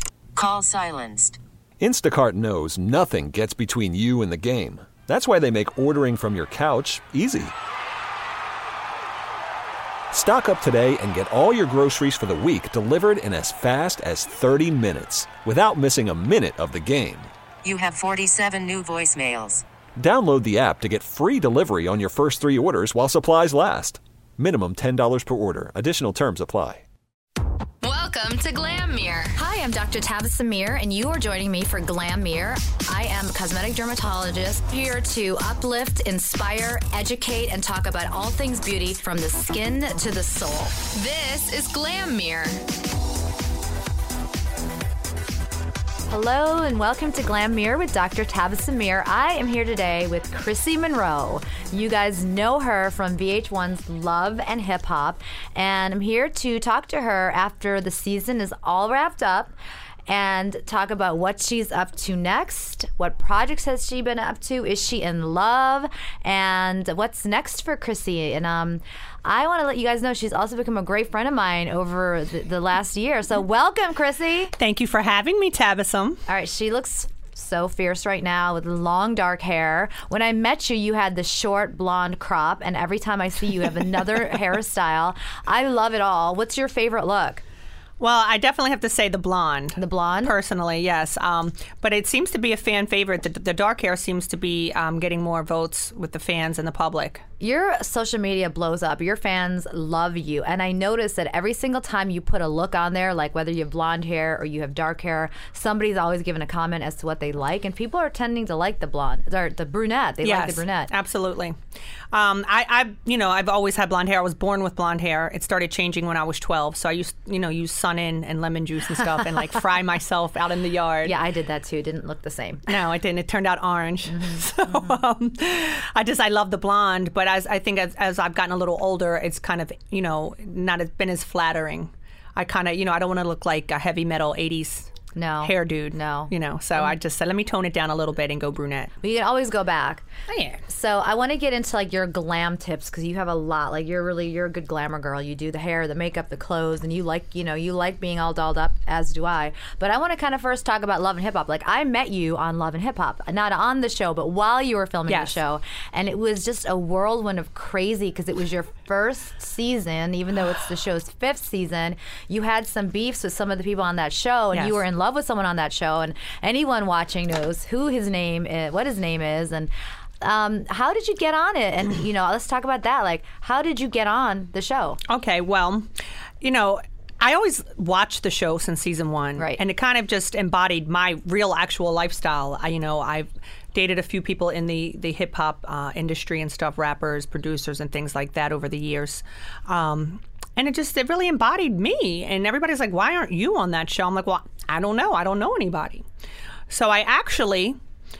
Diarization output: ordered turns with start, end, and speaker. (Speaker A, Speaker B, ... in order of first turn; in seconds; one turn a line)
Speaker A: 0.3-1.4
Speaker B: 1.8-7.5
Speaker B: 10.1-17.3
Speaker A: 17.6-19.6
Speaker B: 20.0-26.8
Speaker C: 27.8-29.3
Speaker D: 29.3-40.9
Speaker C: 40.9-42.6
Speaker D: 46.1-59.5
Speaker D: 60.1-74.5
Speaker E: 74.6-76.2
Speaker D: 76.3-87.4
Speaker E: 88.0-97.2
Speaker D: 89.8-90.3
Speaker D: 97.4-110.9
Speaker E: 110.2-111.6
Speaker E: 112.1-121.1
Speaker D: 121.0-122.7
Speaker E: 122.7-134.9
Speaker D: 124.1-125.0
Speaker D: 135.1-136.9
Speaker E: 135.4-138.9
Speaker D: 139.0-140.0
Speaker E: 140.3-140.6
Speaker D: 140.7-169.7
Speaker E: 155.1-155.3
Speaker E: 164.5-164.8
Speaker D: 170.2-175.0
Speaker E: 175.1-175.9
Speaker E: 176.4-196.0
Speaker E: 196.7-197.8